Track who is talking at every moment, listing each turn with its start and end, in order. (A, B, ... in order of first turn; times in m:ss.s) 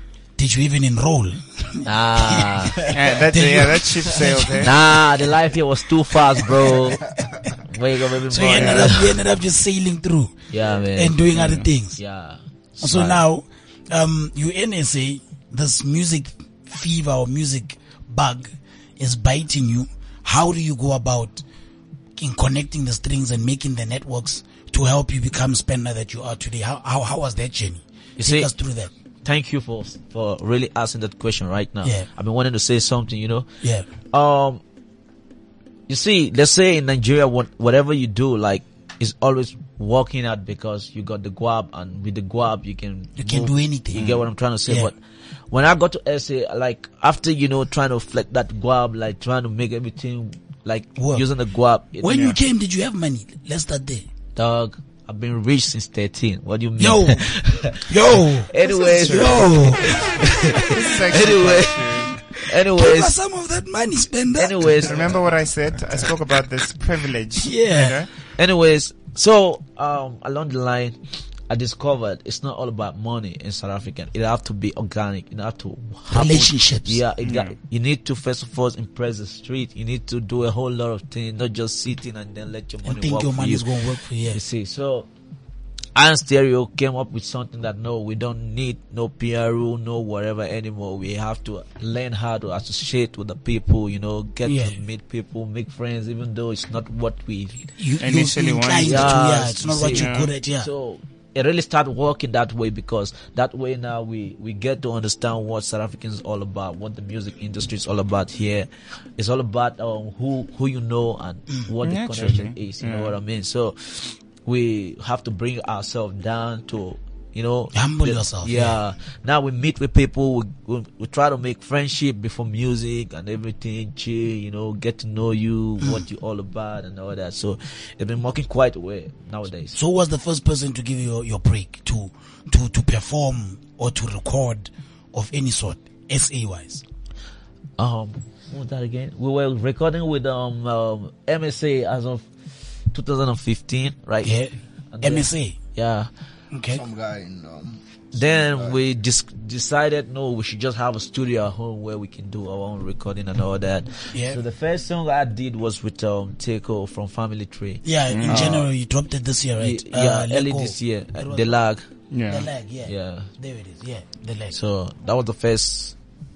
0:00.4-0:04.7 A
0:01.8-0:02.9 B
0:02.7-0:04.2 C
0:02.8-0:04.8 D
0:04.6-0:07.0 B
0:06.7-0:07.5 C
0:07.6-0:09.2 B
0:08.2-0:10.4 A
0:08.5-0:09.1 D
0:10.5-0:13.2 B
0:10.9-0:12.0 A
0:12.8-0:21.4 A
0:22.2-0:28.9 A
0:28.2-0:28.5 B
0:29.2-0:33.5 B
0:33.6-0:33.9 A
0:34.0-0:34.6 B
0:35.9-0:45.0 B
0:43.2-0:44.1 A
0:44.0-0:44.2 D
0:45.5-0:52.4 B
0:51.0-0:51.2 A
0:52.0-0:54.0 A
0:54.4-1:03.2 B
0:56.8-1:01.0 A
0:59.0-0:59.5 C
1:00.5-1:02.2 D
1:02.5-1:04.8 A
1:04.4-1:05.0 B
1:04.8-1:08.1 D
1:04.9-1:05.2 C
1:07.4-1:08.0 A
1:08.4-1:11.0 B
1:11.5-1:23.7 B
1:16.1-1:17.0 A
1:17.2-1:17.5 D
1:22.8-1:24.4 A
1:24.3-1:25.1 B
1:25.9-1:37.7 B
1:34.4-1:34.8 A
1:37.8-1:40.7 A
1:38.0-1:39.2 D
1:38.8-2:09.8 B
1:39.8-1:40.3 D
1:51.8-1:53.1 D
1:57.7-1:58.8 A
2:05.8-2:06.0 A
2:09.7-2:16.8 A
2:17.8-2:22.3 B
2:22.9-2:24.4 B
2:24.2-2:25.6 A
2:24.9-2:26.1 B
2:26.5-2:26.8 A
2:26.7-2:28.8 C
2:28.1-2:38.7 B
2:34.1-2:34.4 A
2:37.8-2:41.6 A
2:38.1-2:38.6 D
2:39.6-2:41.8 B
2:42.1-2:42.5 D
2:42.3-2:44.5 A
2:42.8-2:43.3 B
2:44.5-2:46.0 B